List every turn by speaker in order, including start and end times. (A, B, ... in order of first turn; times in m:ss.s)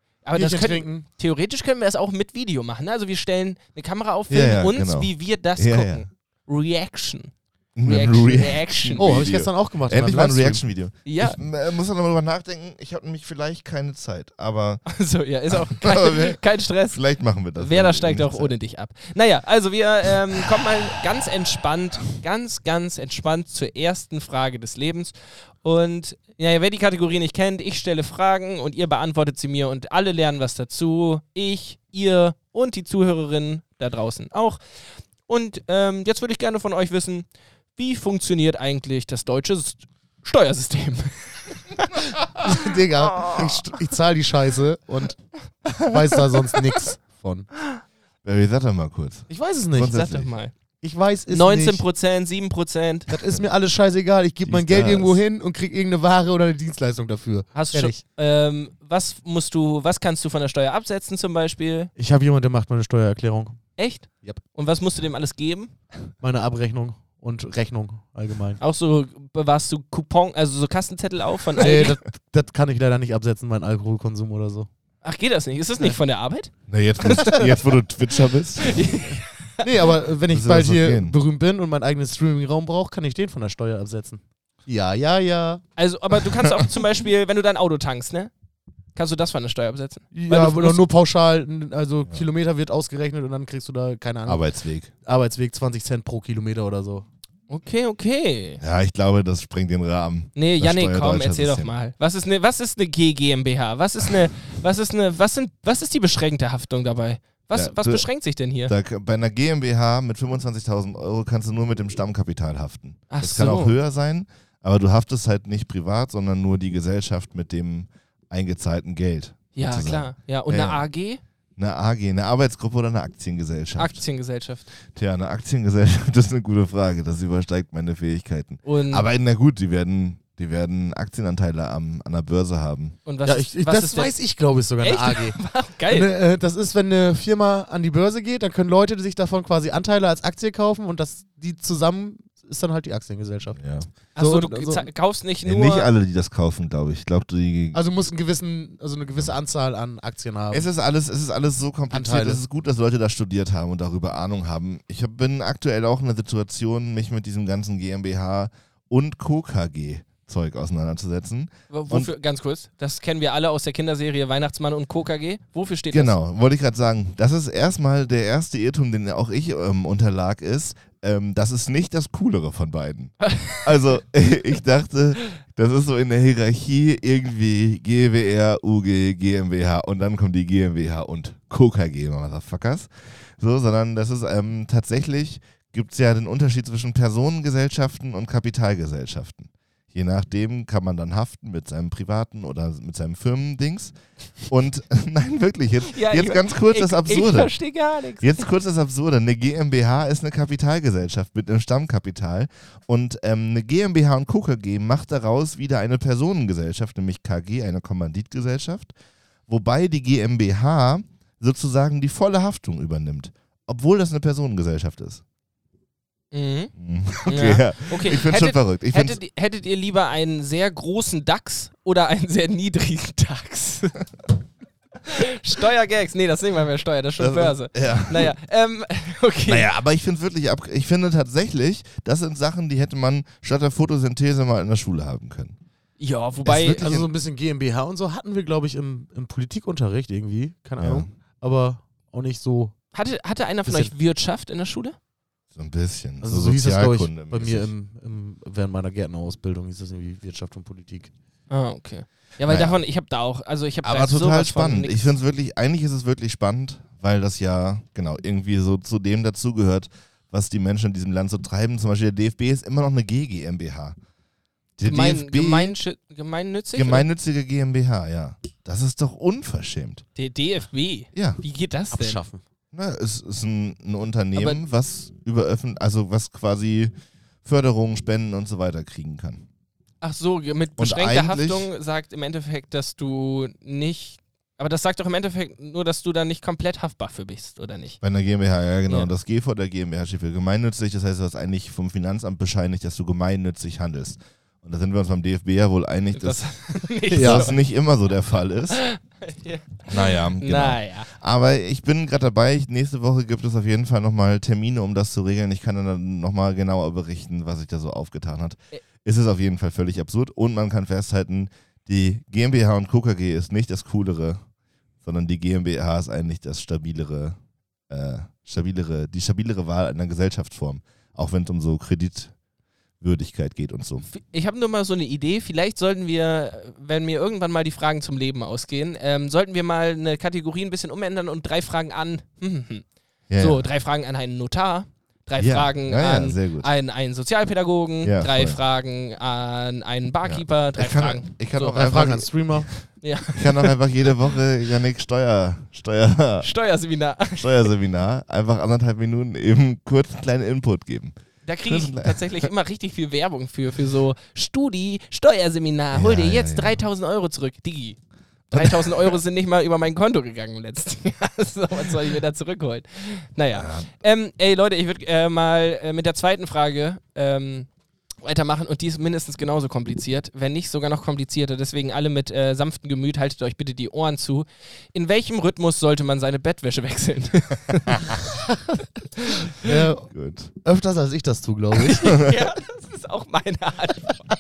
0:00.2-0:09.2 A
0:00.4-0:01.1 B
0:04.3-0:06.0 C
0:07.8-0:14.8 C
0:09.0-0:10.6 B
0:11.0-0:11.4 A
0:14.9-0:17.0 A
0:15.5-0:18.6 C
0:17.6-0:34.6 A
0:35.3-0:43.7 A
0:42.3-0:45.2 B
0:45.8-0:47.5 B
0:48.2-0:50.3 C
0:49.3-0:50.0 B
0:49.9-0:50.6 A
0:50.8-0:51.8 B
0:51.3-0:53.1 A
0:53.1-0:58.0 B
0:54.4-0:55.2 C
0:57.6-1:01.9 A
1:02.0-1:03.6 B
1:03.8-1:05.7 A
1:06.2-1:08.6 B
1:08.6-1:12.0 A
1:11.6-1:14.7 B
1:15.0-1:17.6 A
1:16.7-1:18.8 C
1:18.6-1:19.6 A
1:19.6-1:25.6 B
1:20.3-1:21.2 C
1:25.8-1:28.3 A
1:29.0-1:30.8 A
1:30.1-1:34.5 B
1:34.3-1:34.9 C
1:35.0-1:37.1 B
1:37.5-1:38.6 A
1:38.6-1:41.7 C
1:40.4-1:48.7 A
1:47.5-1:48.1 C
1:48.6-2:00.8 C
1:53.1-1:53.8 A
1:59.6-2:01.2 A
2:01.6-2:04.0 C
2:03.8-2:04.7 A
2:05.0-2:13.0 C
2:08.6-2:09.0 A
2:13.0-2:14.1 A
2:13.2-2:23.6 B
2:14.8-2:16.1 A
2:23.6-2:23.9 C
2:24.2-2:25.9 A
2:24.2-2:24.9 B
2:25.4-2:27.8 C
2:27.7-2:30.7 B
2:30.5-2:42.1 C
2:31.9-2:32.4 B
2:41.7-2:46.2 A
2:45.9-3:13.9 C
2:53.2-2:53.6 A
3:14.5-3:17.6 C
3:15.9-3:18.5 A
3:18.2-3:28.9 C
3:29.5-3:35.2 C
3:36.3-3:36.7 A
3:36.8-3:39.2 C
3:37.2-3:44.0 A
3:45.0-3:49.7 A
3:47.2-3:48.3 C
3:49.5-3:55.6 C
3:56.0-3:57.0 A
3:56.4-4:02.8 B
4:00.8-4:01.1 C
4:02.9-4:05.0 A
4:03.7-4:03.9 B
4:05.5-4:07.7 C
4:06.2-4:11.1 B
4:11.5-4:15.1 A
4:12.4-4:12.8 C
4:13.8-4:24.0 C
4:24.8-4:25.8 C
4:24.8-4:27.1 A
4:26.7-4:30.0 C
4:30.2-4:32.2 A
4:31.1-4:31.4 C
4:31.9-4:32.4 B
4:32.7-4:36.9 C
4:34.4-4:34.6 A
4:37.4-4:39.4 C
4:40.0-4:48.0 A
4:40.8-4:41.7 C
4:48.0-4:58.8 C
4:56.1-4:57.6 A
4:57.1-4:57.5 B
4:58.7-5:01.1 A
4:59.9-5:14.4 C
5:15.0-5:17.4 C
5:17.9-5:22.3 C
5:23.0-5:24.1 C
5:24.1-5:32.8 A
5:33.3-5:33.7 C
5:33.4-5:41.7 A
5:35.4-5:36.7 C
5:38.0-5:38.6 C
5:40.2-5:42.8 C
5:41.6-5:42.7 B
5:43.0-5:43.8 A
5:43.3-5:46.5 C
5:46.4-5:47.7 A
5:47.4-5:52.5 C
5:51.4-5:58.0 A
5:55.9-5:56.8 C
5:58.5-5:59.2 C
5:58.5-6:07.7 A
6:03.5-6:03.9 C
6:08.2-6:18.2 A
6:19.2-6:19.5 A
6:19.6-6:20.1 B
6:20.1-6:20.5 C
6:20.6-6:22.2 B
6:21.8-6:24.2 A